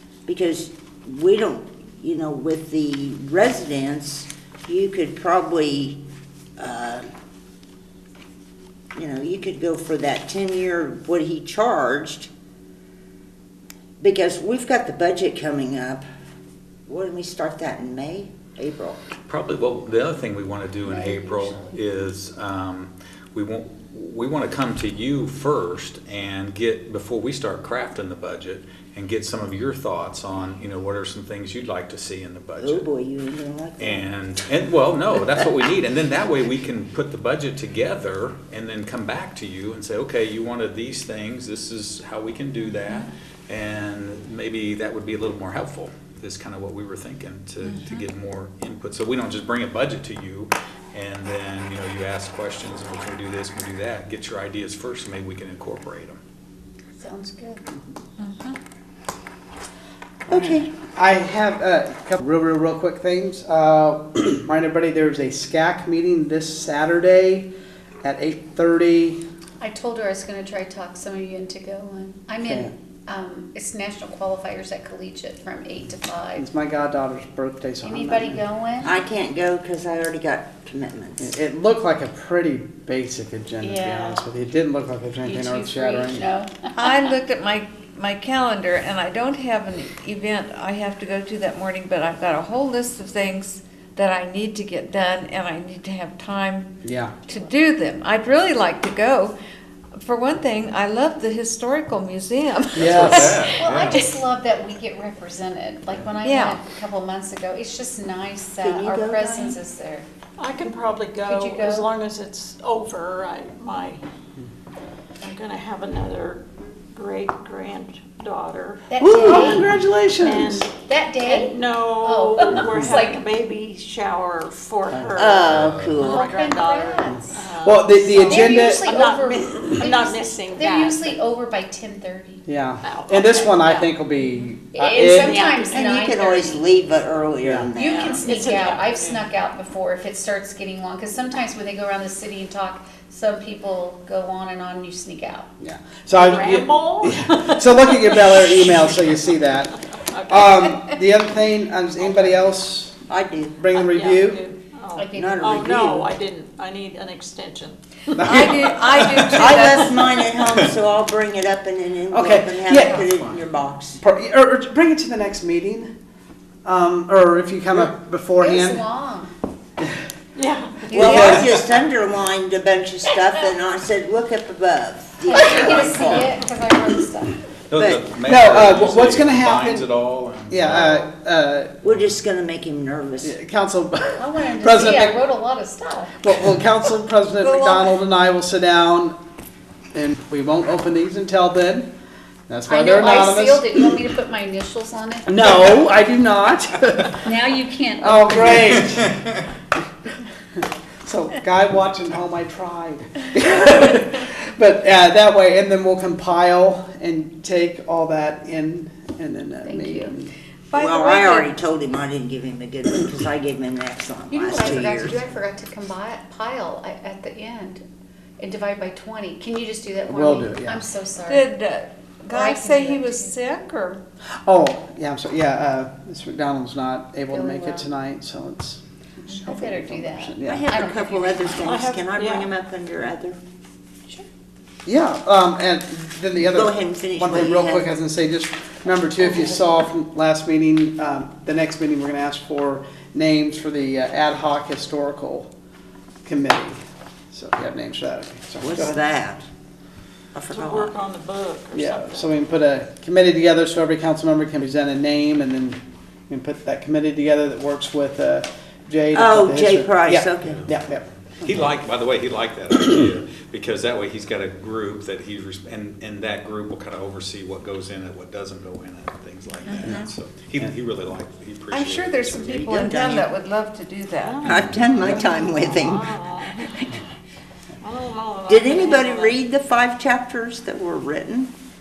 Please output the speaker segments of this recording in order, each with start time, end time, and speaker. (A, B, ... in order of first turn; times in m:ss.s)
0:00.3-0:06.0 A
0:06.6-0:07.1 A
0:08.9-0:12.3 A
0:14.0-0:16.0 A
0:16.9-0:19.0 A
0:19.2-0:32.9 B
0:20.8-0:21.8 C
0:32.6-0:34.1 A
0:33.8-0:56.2 B
0:42.8-0:43.1 D
0:47.8-0:48.0 D
0:57.0-0:57.6 C
0:58.2-0:58.6 D
1:00.3-1:00.7 A
1:00.3-1:07.5 E
1:08.0-1:09.2 E
1:09.6-1:16.4 C
1:12.4-1:12.7 E
1:16.4-1:18.4 E
1:17.8-1:18.9 C
1:18.8-1:21.3 A
1:21.2-1:26.2 E
1:23.6-1:24.2 C
1:25.2-1:26.7 C
1:26.7-1:39.4 D
1:36.8-1:37.1 E
1:40.0-1:42.9 D
1:42.8-1:43.5 E
1:42.9-1:43.9 B
1:42.9-1:50.1 C
1:43.5-1:44.2 D
1:46.2-1:46.6 D
1:48.6-1:49.6 A
1:50.4-1:54.0 F
1:51.2-1:51.9 C
1:55.2-2:11.2 F
1:58.9-1:59.7 C
1:59.0-2:00.6 E
2:00.8-2:03.2 C
2:05.2-2:06.3 A
2:05.4-2:06.0 B
2:06.0-2:07.4 C
2:07.1-2:09.0 E
2:08.1-2:12.4 C
2:12.4-2:15.4 E
2:12.8-2:14.0 F
2:14.7-2:16.6 C
2:14.9-2:16.0 F
2:15.7-2:18.2 A
2:17.4-2:17.7 E
2:17.8-2:25.5 C
2:17.8-2:19.2 F
2:25.6-2:29.7 E
2:26.1-2:30.9 F
2:30.3-2:33.0 E
2:32.0-2:32.5 F
2:33.1-2:33.6 A
2:33.6-2:34.4 E
2:33.7-2:38.7 F
2:34.9-2:35.6 C
2:35.1-2:36.1 A
2:38.2-2:39.3 E
2:38.2-2:40.1 D
2:39.3-2:44.0 A
2:42.1-2:43.4 E
2:44.0-2:45.9 E
2:46.6-2:48.8 E
2:48.4-2:49.3 C
2:50.4-2:51.0 F
2:50.9-2:51.4 C
2:50.9-2:56.4 A
2:51.0-2:51.5 E
2:55.2-2:57.4 C
2:57.7-3:01.1 B
2:57.7-2:58.0 A
2:58.2-2:59.9 E
3:00.5-3:01.8 E
3:01.8-3:03.3 A
3:03.2-3:05.2 E
3:04.2-3:06.2 C
3:06.2-3:09.2 E
3:07.4-3:07.8 D
3:09.9-3:11.9 E
3:12.5-3:13.9 E
3:12.6-3:15.8 C
3:15.3-3:17.2 E
3:17.2-3:18.9 C
3:18.0-3:19.2 E
3:21.0-3:30.3 E
3:29.6-3:30.1 C
3:30.7-3:31.5 D
3:30.7-3:35.2 A
3:34.3-3:37.8 C
3:38.4-3:41.5 C
3:40.1-3:40.8 E
3:41.3-3:44.0 D
3:42.3-3:43.4 C
3:44.4-3:50.7 E
3:47.3-3:47.9 C
3:49.3-3:51.8 C
3:50.4-3:53.4 A
3:51.6-3:52.5 F
3:54.8-4:05.5 E
3:56.4-3:57.9 A
4:06.2-4:06.8 E
4:07.3-4:09.0 E
4:08.6-4:09.4 A
4:10.3-4:10.9 A
4:10.5-4:12.4 F
4:11.7-4:15.8 E
4:16.3-4:21.6 E
4:19.1-4:20.6 A
4:20.4-4:20.7 B
4:21.4-4:32.6 B
4:29.7-4:30.1 A
4:31.7-4:34.5 D
4:32.4-4:33.3 A
4:34.2-4:37.0 F
4:34.4-4:36.1 A
4:36.7-4:37.0 A
4:37.8-4:39.4 F
4:38.5-4:41.5 A